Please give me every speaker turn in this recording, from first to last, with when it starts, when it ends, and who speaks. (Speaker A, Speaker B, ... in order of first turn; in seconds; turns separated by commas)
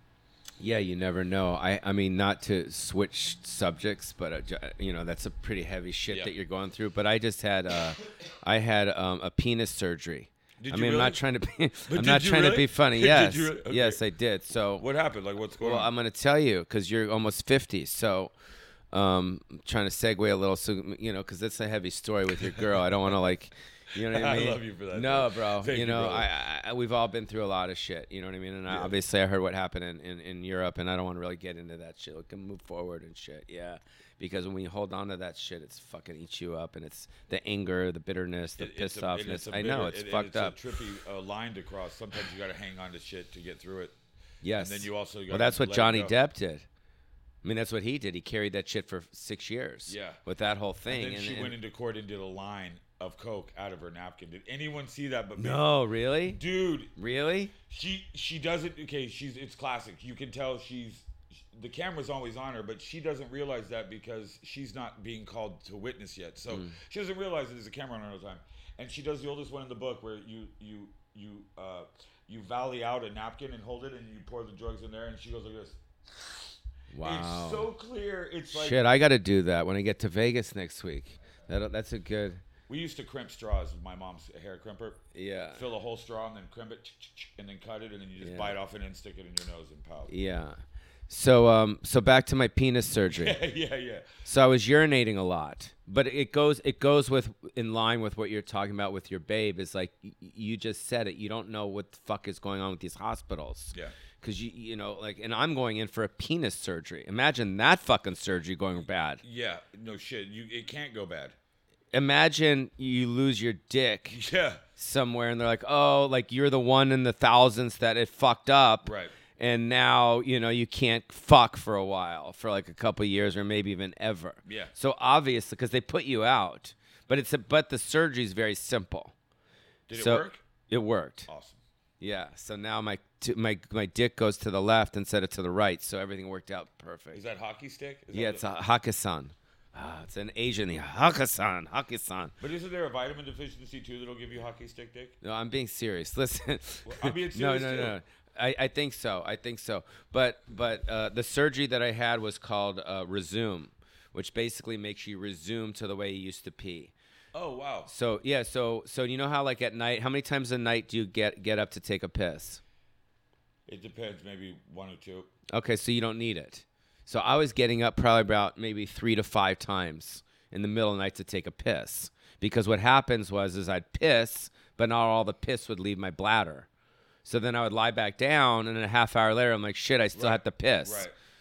Speaker A: 0.6-14.9, Speaker B: 6.1-6.3, Speaker B: 10.6-11.2, Speaker B: 11.9-14.0, Speaker B: 14.8-15.9, Speaker A: 15.6-18.3, Speaker A: 18.9-40.6, Speaker B: 22.5-22.8, Speaker B: 24.0-26.3, Speaker B: 28.7-28.9, Speaker B: 38.6-44.0, Speaker A: 44.4-46.7, Speaker B: 44.6-46.1, Speaker A: 47.4-51.5, Speaker B: 49.9-50.2, Speaker B: 50.9-55.6, Speaker A: 55.4-56.4, Speaker B: 56.3-56.9, Speaker A: 57.0-57.5, Speaker B: 57.6-78.8, Speaker A: 66.5-66.8, Speaker A: 76.9-77.7, Speaker A: 78.5-82.4, Speaker B: 82.7-85.0, Speaker A: 85.1-85.7, Speaker B: 85.5-90.1, Speaker A: 88.2-88.6, Speaker A: 90.1-93.4, Speaker B: 93.1-94.0, Speaker A: 94.2-109.2, Speaker B: 109.2-111.3, Speaker A: 111.9-114.2, Speaker B: 114.1-114.6, Speaker A: 114.8-129.1, Speaker B: 118.9-119.1, Speaker B: 124.5-124.7, Speaker B: 129.9-130.4, Speaker A: 129.9-131.3, Speaker B: 131.3-131.6, Speaker A: 132.0-137.2, Speaker B: 137.1-138.4, Speaker A: 138.1-142.3, Speaker B: 142.4-145.2, Speaker A: 145.2-156.9, Speaker B: 146.8-148.0, Speaker B: 157.3-157.9, Speaker A: 157.9-162.6, Speaker B: 163.7-165.3, Speaker A: 165.5-176.7, Speaker A: 177.2-181.1, Speaker B: 180.1-181.1